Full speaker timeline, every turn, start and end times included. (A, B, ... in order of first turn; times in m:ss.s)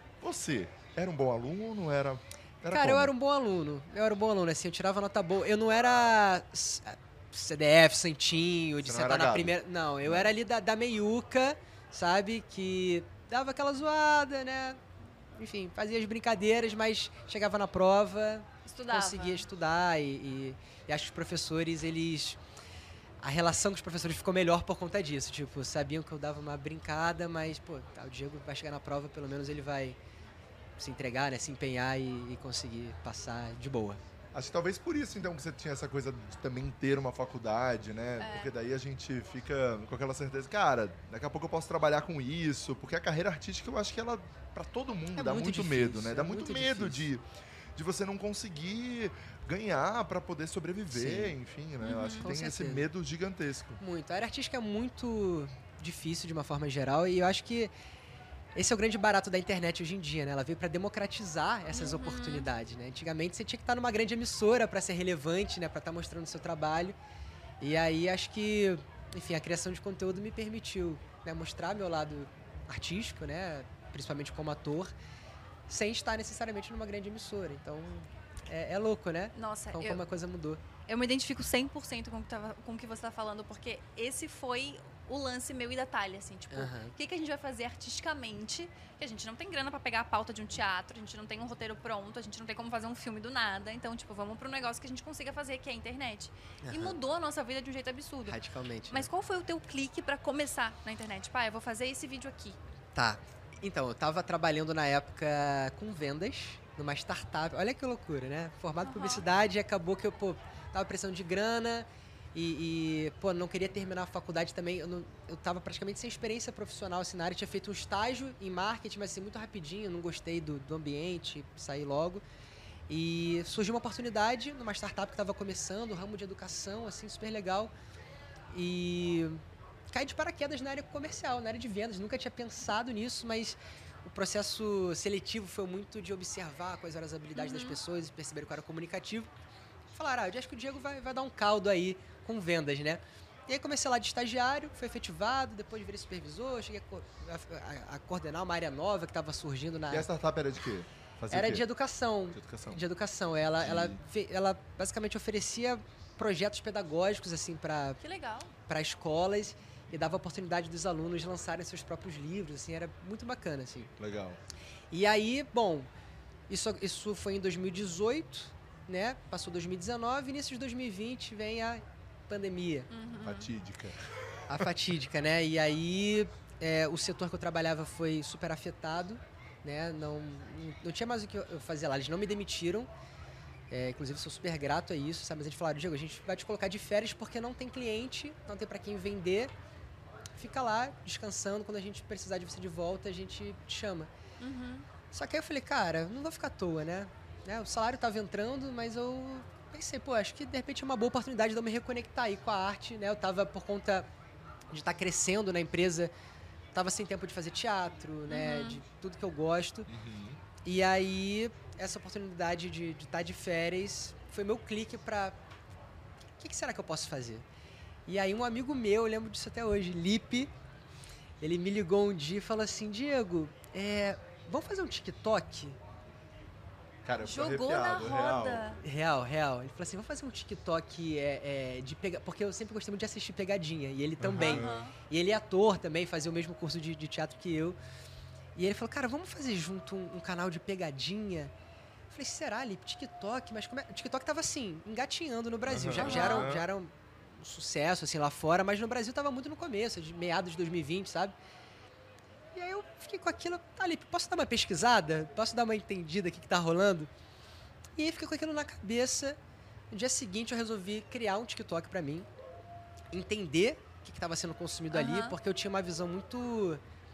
0:00.2-0:03.1 A
0:02.7-0:14.8 B
0:08.8-0:10.3 A
0:15.4-0:22.4 B
0:18.6-0:19.4 C
0:23.2-0:30.0 B
0:30.8-0:34.0 B
0:34.3-0:47.2 A
0:38.2-0:38.5 C
0:45.2-0:47.0 B
0:47.8-0:53.8 A
0:50.9-0:51.4 B
0:51.8-0:52.3 C
0:52.2-0:52.9 B
0:53.8-0:57.7 B
0:58.6-1:07.0 B
1:01.7-1:02.5 C
1:07.6-1:14.9 B
1:15.7-1:20.6 B
1:19.4-1:20.0 C
1:20.9-1:38.4 C
1:26.5-1:26.9 B
1:36.6-1:37.0 B
1:38.3-1:39.1 B
1:38.9-1:42.6 C
1:42.9-2:02.2 B
1:48.8-1:49.2 C
2:02.9-2:07.7 B
2:08.5-2:19.3 B
2:17.3-2:17.8 C
2:19.9-2:30.1 B
2:29.9-2:31.6 A
2:31.3-2:38.0 B
2:32.3-2:32.8 A
2:33.6-2:34.0 A
2:38.0-2:38.5 C
2:38.7-2:43.9 B
2:44.0-2:44.4 A
2:44.9-2:45.9 B
2:46.5-2:52.9 B
2:52.9-2:53.5 C
2:53.2-2:54.0 A
2:54.5-3:02.9 B
3:03.7-3:09.5 B
3:10.4-3:14.1 B
3:14.4-3:14.9 C
3:15.1-3:24.1 B
3:24.7-3:26.1 B
3:26.7-3:29.9 B
3:28.3-3:28.8 C
3:29.9-3:30.4 A
3:30.6-3:35.4 B
3:36.4-3:37.4 B
3:38.1-3:40.5 B
3:41.4-3:45.8 B
3:47.0-3:48.7 A
3:47.2-3:48.8 C
3:48.8-3:57.8 B
3:54.2-3:54.8 A
3:54.4-3:54.9 C
3:58.6-4:01.5 B
4:02.1-4:11.3 B
4:05.7-4:06.7 A
4:05.9-4:06.5 C
4:12.5-4:17.1 B
4:18.0-4:19.4 B
4:19.9-4:22.3 B
4:23.1-4:26.8 B
4:24.9-4:25.4 C